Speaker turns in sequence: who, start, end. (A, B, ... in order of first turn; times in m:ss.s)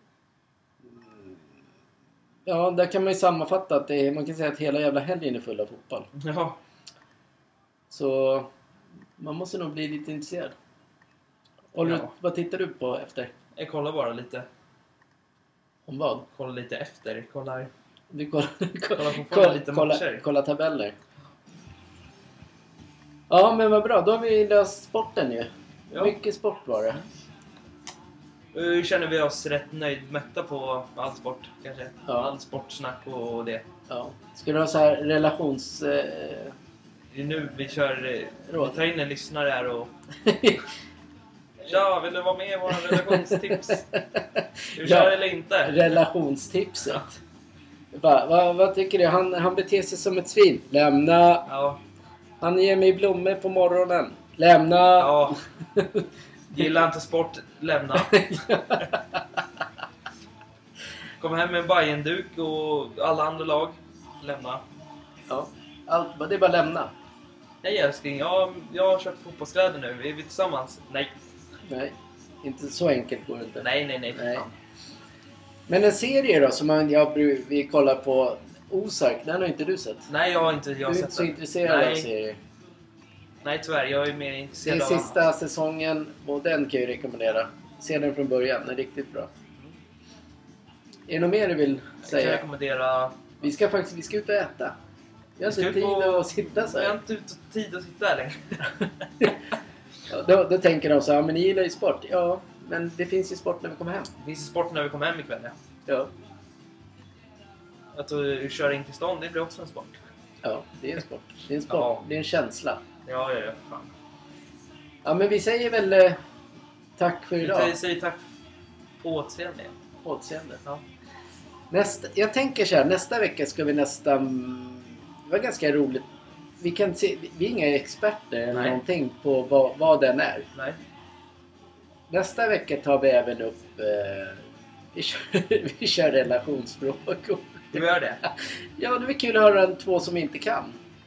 0:01.0-0:01.3 A
0:02.5-0:06.1 A
0:06.1-0:06.6 B
0:07.9-0:08.5 A
0:09.2-0:10.6 A
0:11.7-0:13.3 A
0:11.8-0:12.1 B
0:13.6-0:14.5 B
0:15.9-0:16.3 A
0:16.3-0:17.7 B
0:18.1-0:21.0 A
0:19.0-0:20.2 B
0:23.3-0:27.0 A
0:28.5-0:33.6 B
0:32.1-0:32.3 A
0:33.9-0:36.6 A
0:37.1-0:39.9 B
0:38.5-0:38.8 A
0:40.2-0:40.6 A
0:41.6-0:43.8 B
0:42.7-0:47.2 A
0:44.8-0:46.0 B
0:47.9-0:51.5 A
0:51.5-0:51.8 B
0:52.4-0:56.9 A
0:55.0-0:55.4 B
0:56.5-0:58.3 B
0:58.0-0:59.2 A
1:01.2-1:04.6 B
1:05.3-1:06.9 A
1:07.6-1:11.2 B
1:11.7-1:14.4 A
1:13.6-1:14.5 B
1:15.7-1:20.1 A
1:20.1-1:22.1 B
1:20.8-1:22.4 A
1:23.4-1:25.2 B
1:24.6-1:29.3 A
1:31.1-1:32.4 A
1:32.0-1:33.3 B
1:33.4-1:34.8 A
1:35.4-1:37.0 A
1:35.4-1:39.3 B
1:40.1-1:44.1 A
1:44.2-1:45.6 B
1:48.0-1:50.0 B
1:50.4-1:52.8 A
1:51.7-1:52.0 B
1:53.0-1:53.9 B
1:55.0-1:56.2 A
1:57.0-1:57.8 A
1:57.4-1:58.2 B
1:59.0-1:59.8 B
2:00.0-2:00.6 A
2:01.7-2:06.1 A
2:06.6-2:10.5 A
2:08.5-2:08.8 B
2:12.1-2:20.8 A
2:17.7-2:18.2 B